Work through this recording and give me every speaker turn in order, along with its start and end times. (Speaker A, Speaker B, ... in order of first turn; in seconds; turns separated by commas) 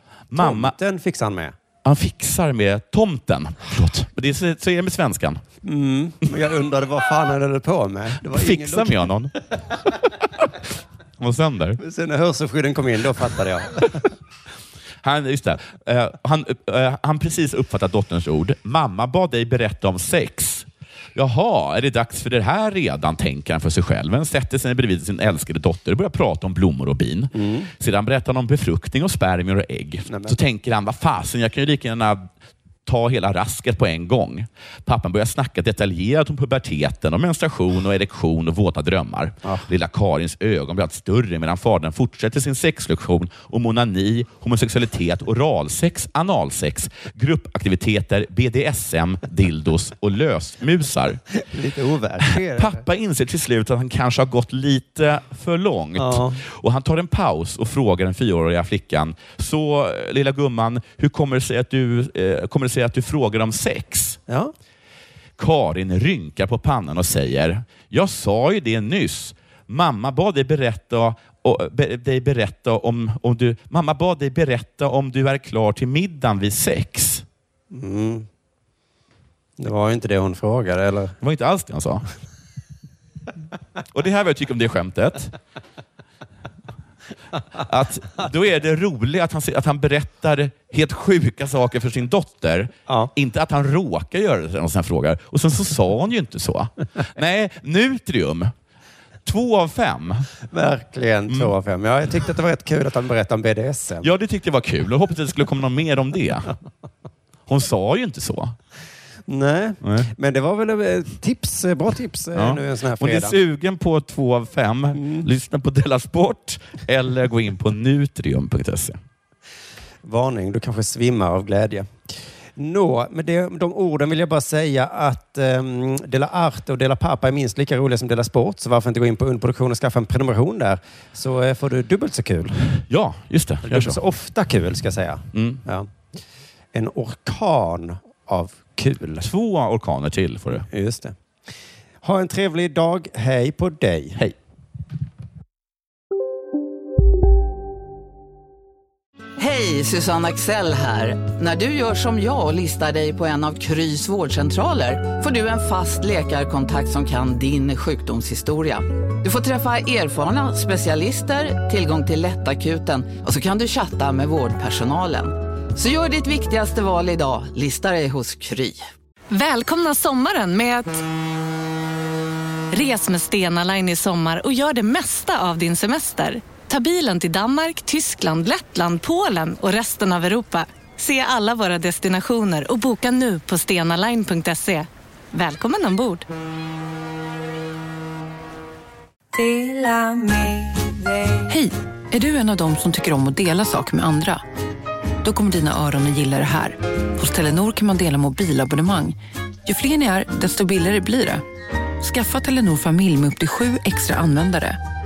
Speaker A: 0.3-0.8, Speaker B: 0.4-1.6, Speaker A: 1.8-5.4, Speaker B: 5.6-9.1, Speaker A: 8.3-9.3, Speaker A: 11.2-11.8, Speaker B: 11.8-14.0, Speaker A: 15.0-32.3, Speaker B: 27.3-27.7, Speaker B: 30.1-30.4, Speaker A: 32.9-51.2, Speaker B: 51.3-52.8, Speaker A: 52.2-64.2, Speaker B: 56.0-56.4, Speaker B: 64.3-64.5, Speaker A: 65.4-77.2, Speaker B: 77.7-78.3, Speaker B: 79.6-81.2, Speaker A: 81.2-82.0, Speaker A: 83.9-85.3, Speaker A: 87.6-98.5, Speaker B: 92.9-93.1, Speaker A: 99.2-100.3, Speaker B: 100.5-104.1, Speaker A: 104.0-106.5, Speaker A: 107.5-108.6, Speaker B: 109.3-113.4, Speaker A: 109.8-110.1, Speaker A: 112.3-119.0, Speaker B: 115.0-115.3, Speaker B: 120.0-121.9, Speaker B: 122.6-132.6, Speaker A: 132.9-134.0, Speaker B: 133.6-135.9, Speaker A: 135.3-135.6, Speaker B: 136.7-139.3, Speaker A: 139.2-140.7, Speaker B: 140.5-141.2, Speaker B: 142.0-144.2, Speaker C: 149.4-168.9, Speaker D: 169.3-171.0, Speaker D: 172.7-186.3, Speaker E: 191.5-194.4, Speaker E: 195.2-201.4, Speaker E: 202.0-204.8